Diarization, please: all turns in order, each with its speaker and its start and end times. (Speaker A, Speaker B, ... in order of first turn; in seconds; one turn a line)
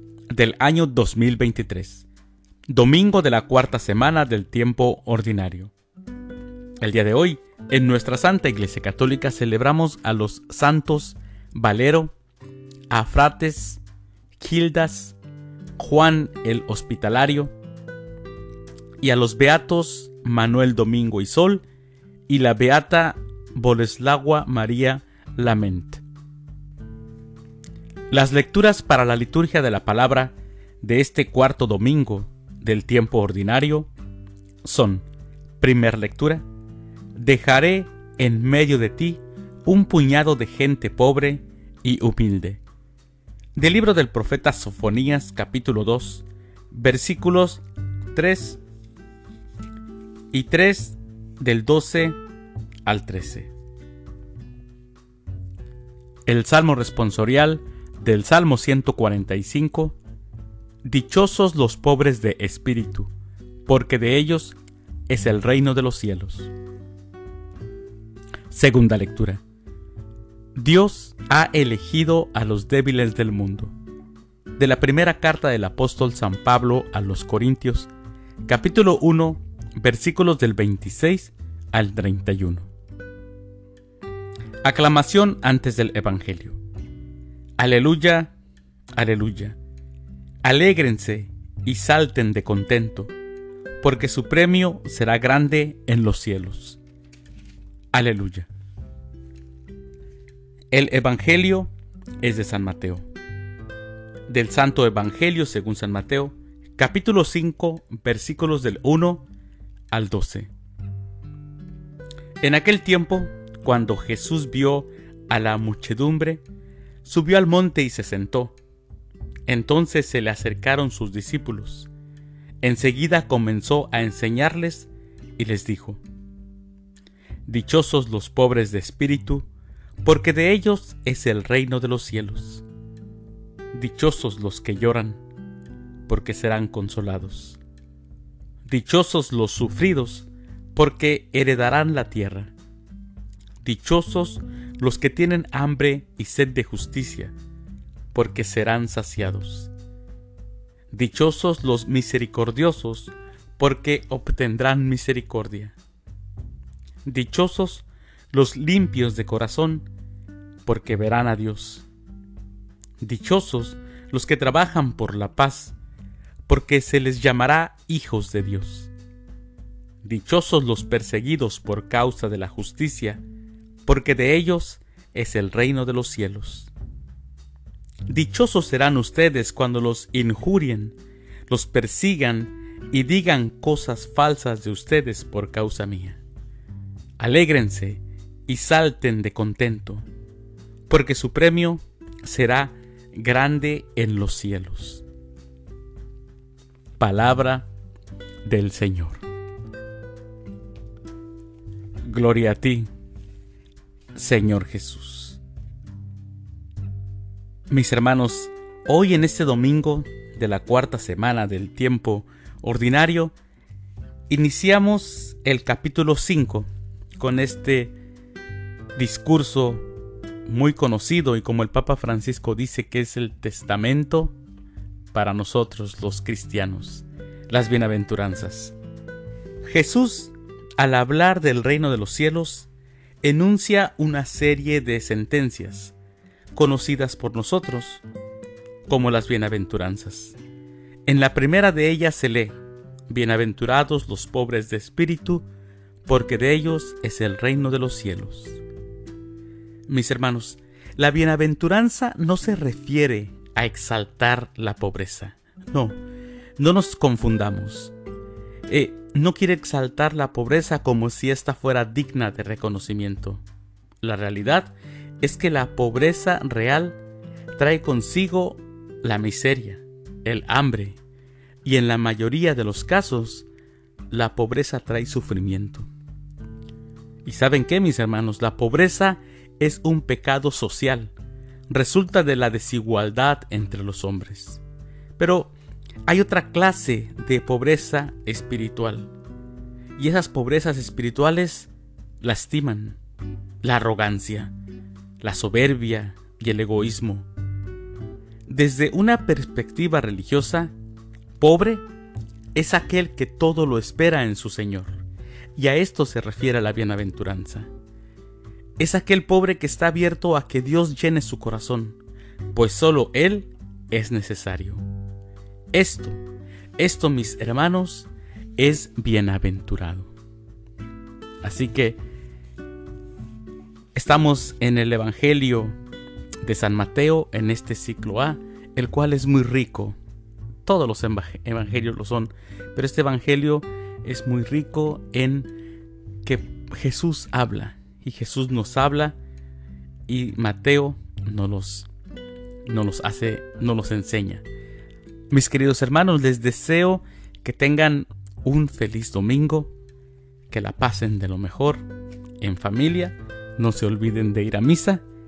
Speaker A: 0.3-2.1
Speaker A: 2.7-5.7
Speaker A: 6.8-12.1
Speaker A: 12.9-13.8
Speaker A: 14.4-15.2
Speaker A: 15.8-17.5
Speaker A: 19.0-21.6
Speaker A: 22.3-26.0
Speaker A: 28.1-33.9
Speaker A: 34.6-35.0
Speaker A: 35.6-36.4
Speaker A: 37.2-42.6
Speaker A: 43.5-48.6
Speaker A: 50.3-52.2
Speaker A: 52.9-53.5
Speaker A: 56.3-60.0
Speaker A: 60.8-63.1
Speaker A: 63.7-64.6
Speaker A: 65.1-66.5
Speaker A: 68.5-69.4
Speaker A: 70.6-73.7
Speaker A: 74.6-77.9
Speaker A: 78.4-82.7
Speaker A: 84.6-86.6
Speaker A: 87.6-88.3
Speaker A: 89.0-89.6
Speaker A: 90.4-93.1
Speaker A: 93.8-96.8
Speaker A: 97.9-98.5
Speaker A: 100.7-103.0
Speaker A: 104.3-109.2
Speaker A: 109.9-110.5
Speaker A: 112.4-116.4
Speaker A: 117.0-118.5
Speaker A: 119.5-121.9
Speaker A: 122.6-126.0
Speaker A: 127.5-129.5
Speaker A: 130.0-132.6
Speaker A: 133.7-135.2
Speaker A: 136.1-137.6
Speaker A: 138.7-142.5
Speaker A: 143.6-147.3
Speaker A: 148.1-149.7
Speaker A: 150.9-155.8
Speaker A: 157.1-159.9
Speaker A: 160.7-161.9
Speaker A: 163.0-165.8
Speaker A: 166.5-168.9
Speaker A: 170.0-173.2
Speaker A: 173.8-176.7
Speaker A: 178.1-181.0
Speaker A: 181.5-186.2
Speaker A: 187.2-190.1
Speaker A: 190.9-195.0
Speaker A: 197.0-197.7
Speaker A: 198.4-199.2
Speaker A: 202.1-202.9
Speaker A: 204.2-205.4
Speaker A: 207.7-213.3
Speaker A: 214.3-216.7
Speaker A: 217.2-217.9
Speaker A: 219.0-219.8
Speaker A: 220.5-224.3
Speaker A: 225.1-228.8
Speaker A: 229.6-232.7
Speaker A: 233.2-235.9
Speaker A: 236.5-238.0
Speaker A: 238.9-240.4
Speaker A: 241.1-242.6
Speaker A: 243.1-245.5
Speaker A: 246.1-248.6
Speaker A: 249.9-256.0
Speaker A: 256.6-257.9
Speaker A: 258.7-263.4
Speaker A: 264.0-267.0
Speaker A: 267.6-271.0
Speaker A: 271.6-273.5
Speaker A: 274.1-275.9
Speaker A: 277.2-281.1
Speaker A: 281.7-284.6
Speaker A: 285.2-285.5
Speaker A: 286.1-289.1
Speaker A: 290.0-291.7
Speaker A: 292.2-293.0
Speaker A: 293.6-294.5
Speaker A: 295.2-297.3
Speaker A: 298.5-300.7
Speaker A: 301.4-301.8
Speaker A: 302.6-305.0
Speaker A: 305.6-307.7
Speaker A: 308.8-312.0
Speaker A: 312.5-314.8
Speaker A: 315.7-316.2
Speaker A: 316.8-320.1
Speaker A: 321.4-322.0
Speaker A: 323.9-325.8
Speaker A: 326.4-330.0
Speaker A: 330.6-335.5
Speaker A: 336.2-339.2
Speaker A: 340.1-341.9
Speaker A: 342.6-344.4
Speaker A: 345.3-349.7
Speaker A: 350.5-351.9
Speaker A: 352.4-355.0